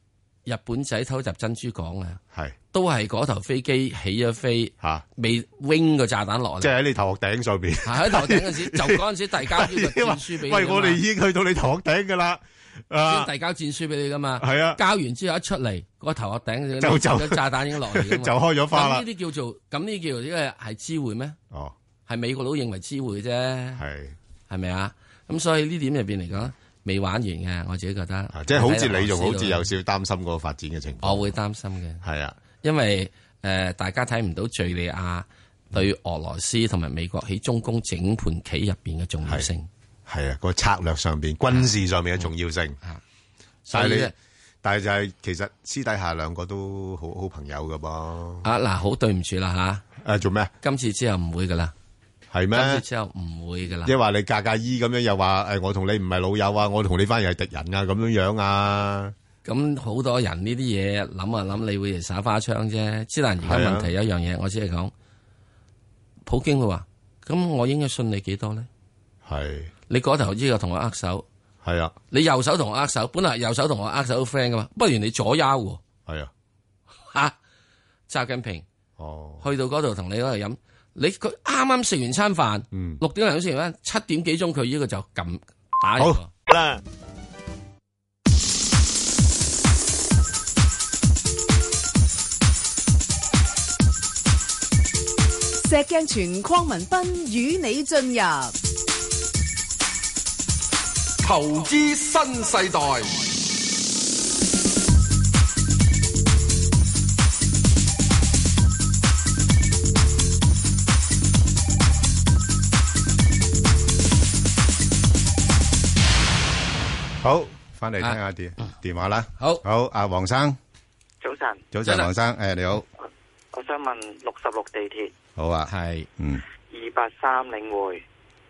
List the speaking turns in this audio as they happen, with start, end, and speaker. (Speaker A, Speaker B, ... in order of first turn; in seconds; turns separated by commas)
Speaker A: 0.5-2.2, Speaker A: 2.7-6.7, Speaker B: 6.6-13.3, Speaker A: 7.8-11.0, Speaker A: 13.0-21.4, Speaker B: 14.4-14.8, Speaker B: 16.8-19.1, Speaker A: 22.1-23.8, Speaker B: 23.8-24.1, Speaker A: 24.5-29.7, Speaker B: 28.3-31.3, Speaker A: 31.0-32.0, Speaker B: 32.0-32.4, Speaker A: 32.6-39.7, Speaker B: 40.1-42.8, Speaker B: 43.7-48.5, Speaker A: 43.7-44.1, Speaker A: 48.4-49.8, Speaker B: 50.0-50.5, Speaker A: 50.6-51.7, Speaker B: 52.3-52.8, Speaker A: 52.5-53.9, Speaker B: 53.8-59.1, Speaker A: 59.4-64.9, Speaker B: 63.4-63.9, Speaker A: 66.2-68.7, Speaker B: 69.2-69.7, Speaker A: 69.9-71.2, Speaker B: 71.6-71.9, Speaker A: 72.1-75.8, Speaker B: 76.0-76.3, Speaker A: 78.1-78.7, Speaker B: 79.0-79.4, Speaker A: 79.4-86.3, Speaker B: 82.7-83.0, Speaker B: 86.0-86.8, Speaker C: 95.6-98.5, Speaker D: 101.2-103.2, Speaker B: 117.2-120.6, Speaker E: 121.2-121.7, Speaker B: 121.7-122.8, Speaker E: 123.5-125.1, Speaker B: 125.3-126.4, Speaker A: 125.7-126.1, Speaker E: 126.7-128.0